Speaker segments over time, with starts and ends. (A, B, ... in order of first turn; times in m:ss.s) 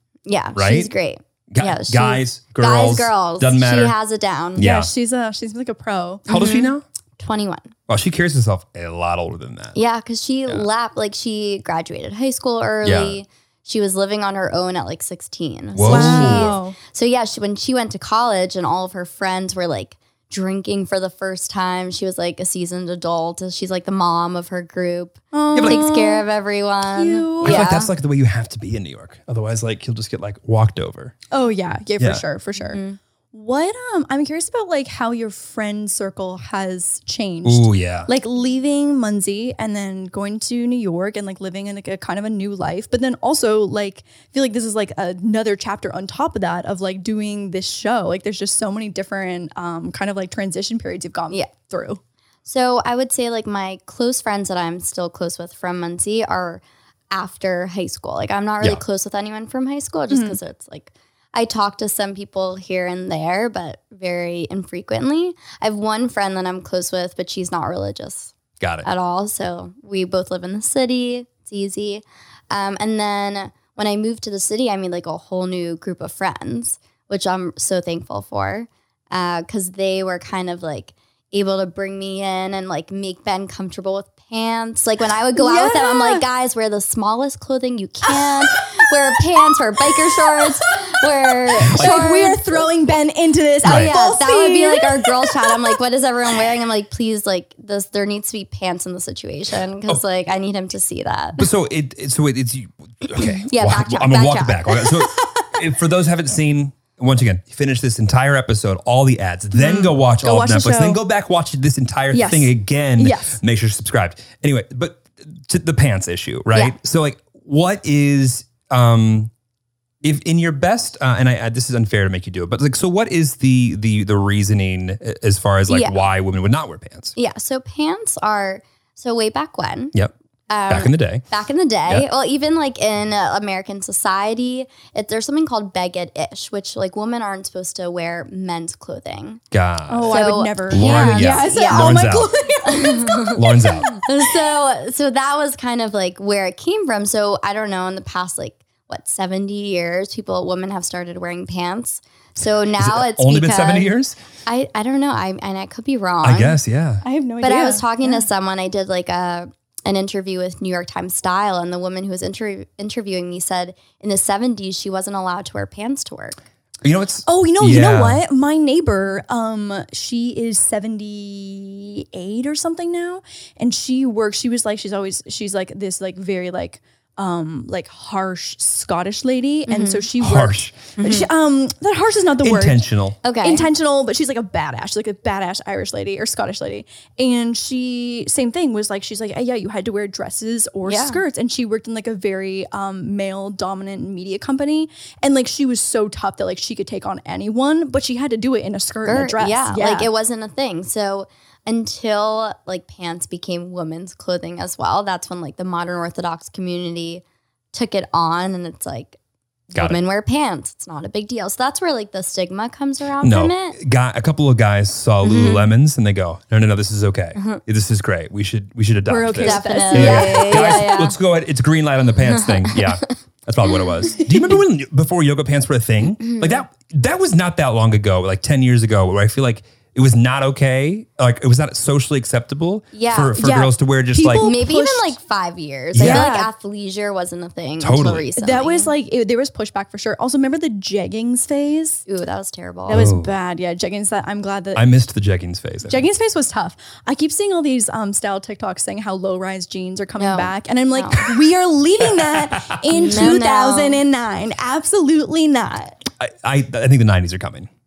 0:00.2-0:04.6 A
0:00.5-0:00.9 B
0:01.5-0:03.9 B
0:04.6-0:04.9 B
0:04.6-0:06.6 C
0:06.3-0:06.8 B
0:06.3-0:07.7 A
0:07.9-0:09.8 B
0:09.7-0:27.9 A
0:12.8-0:13.2 B
0:15.7-0:16.6 B
0:15.8-0:16.8 C
0:25.3-0:26.3 C
0:25.5-0:25.8 B
0:26.9-0:27.7 C
0:27.4-0:31.2 B
0:31.3-0:32.8 C
0:32.6-0:33.0 A
0:33.3-0:52.0 C
0:37.4-0:38.1 B
0:52.4-1:32.7 A
1:00.1-1:00.4 C
1:08.6-1:08.9 B
1:25.3-1:26.2 C
1:28.0-1:28.5 C
1:29.8-1:35.7 C
1:31.7-1:32.0 B
1:33.6-1:33.9 B
1:33.6-1:41.5 A
1:41.4-1:59.3 B
1:43.2-1:44.9 A
1:49.6-1:51.0 C
1:52.1-1:53.4 C
2:00.0-2:07.1 B
2:05.7-2:06.0 A
2:07.2-2:09.9 A
2:10.5-2:19.4 A
2:10.7-2:11.2 B
2:19.5-2:22.3 B
2:19.9-2:24.3 C
2:20.0-2:33.9 A
2:23.3-2:23.9 B
2:32.8-2:34.2 B
2:34.4-2:36.6 A
2:36.2-2:37.0 B
2:37.0-2:38.2 C
2:37.4-2:46.4 A
2:46.8-2:48.2 B
2:47.2-3:02.8 C
2:59.7-3:00.1 A
3:00.2-3:00.8 B
3:01.0-3:01.3 A
3:02.4-3:03.2 B
3:03.2-3:03.7 A
3:03.4-3:20.1 C
3:10.8-3:11.2 A
3:19.0-3:29.2 A
3:29.7-3:30.0 B
3:29.7-3:33.8 A
3:33.2-3:54.5 B
3:35.2-3:35.7 A
3:37.4-3:37.6 A
3:39.1-3:41.0 C
3:39.4-3:41.2 A
3:42.2-3:43.1 A
3:46.2-3:46.6 A
3:52.9-3:53.4 A
3:53.4-3:55.2 C
3:54.4-3:58.9 A
3:55.9-3:56.3 B
3:56.0-3:56.5 C
3:57.8-3:58.3 B
3:58.4-4:02.0 C
4:02.1-4:03.1 A
4:02.8-4:04.8 C
4:02.9-4:03.3 B
4:04.7-4:06.0 B
4:05.8-4:16.0 C
4:10.2-4:11.2 A
4:12.2-4:12.8 B
4:12.9-4:14.0 A
4:16.2-4:17.7 B